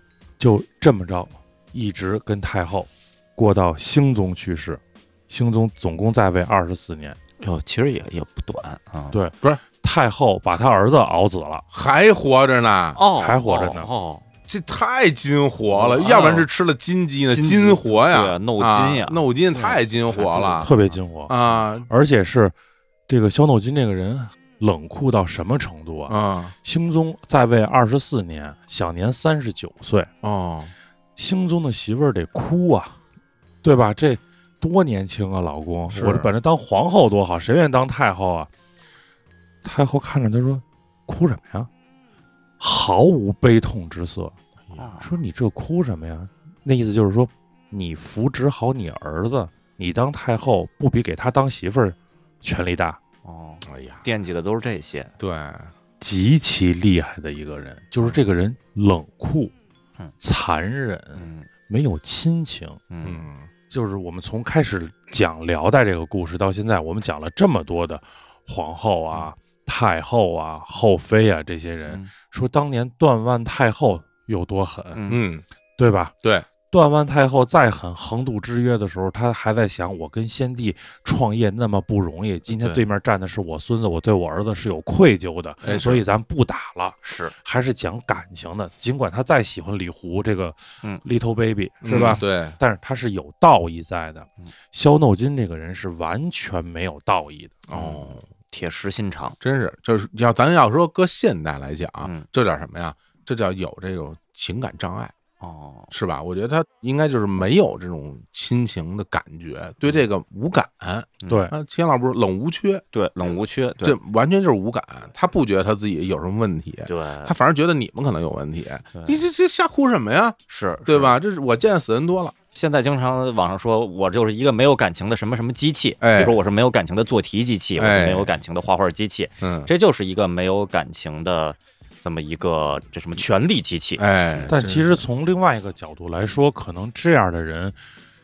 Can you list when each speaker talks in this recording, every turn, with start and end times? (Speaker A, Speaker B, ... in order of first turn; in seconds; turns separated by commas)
Speaker A: 0.4-7.2, Speaker B: 7.4-9.2, Speaker A: 9.1-11.6, Speaker C: 11.7-13.0, Speaker B: 12.9-14.2, Speaker A: 13.2-13.9, Speaker C: 14.5-20.7, Speaker B: 15.7-16.5, Speaker B: 17.3-21.0, Speaker A: 20.6-21.3, Speaker C: 21.3-21.9, Speaker A: 21.9-22.5, Speaker A: 23.1-30.1, Speaker C: 26.1-26.5, Speaker C: 30.2-30.7, Speaker A: 31.1-33.0, Speaker A: 33.6-38.5, Speaker C: 35.9-36.3, Speaker A: 39.6-41.7, Speaker A: 42.6-44.3, Speaker B: 44.7-45.1, Speaker A: 45.0-53.0, Speaker B: 53.2-55.1, Speaker C: 53.6-54.0, Speaker C: 55.2-55.7, Speaker A: 56.0-59.5, Speaker A: 60.2-62.8, Speaker B: 61.1-61.5, Speaker B: 62.9-63.2, Speaker C: 63.0-63.5, Speaker A: 63.7-75.0, Speaker B: 74.9-75.2, Speaker C: 75.1-75.4, Speaker A: 75.8-76.1, Speaker A: 76.7-97.6, Speaker C: 82.5-82.8, Speaker C: 85.6-86.0, Speaker B: 87.0-87.3, Speaker C: 91.8-92.6, Speaker C: 97.7-98.2, Speaker B: 97.7-99.4, Speaker C: 99.4-105.1, Speaker B: 105.4-105.9, Speaker C: 105.9-122.3, Speaker B: 111.2-111.5, Speaker A: 111.3-111.5, Speaker B: 112.9-114.0, Speaker B: 116.9-117.3, Speaker B: 120.5-121.2, Speaker B: 122.5-134.5, Speaker C: 126.0-126.4, Speaker C: 127.8-128.4, Speaker C: 129.4-129.7, Speaker C: 134.0-135.0, Speaker A: 134.5-137.8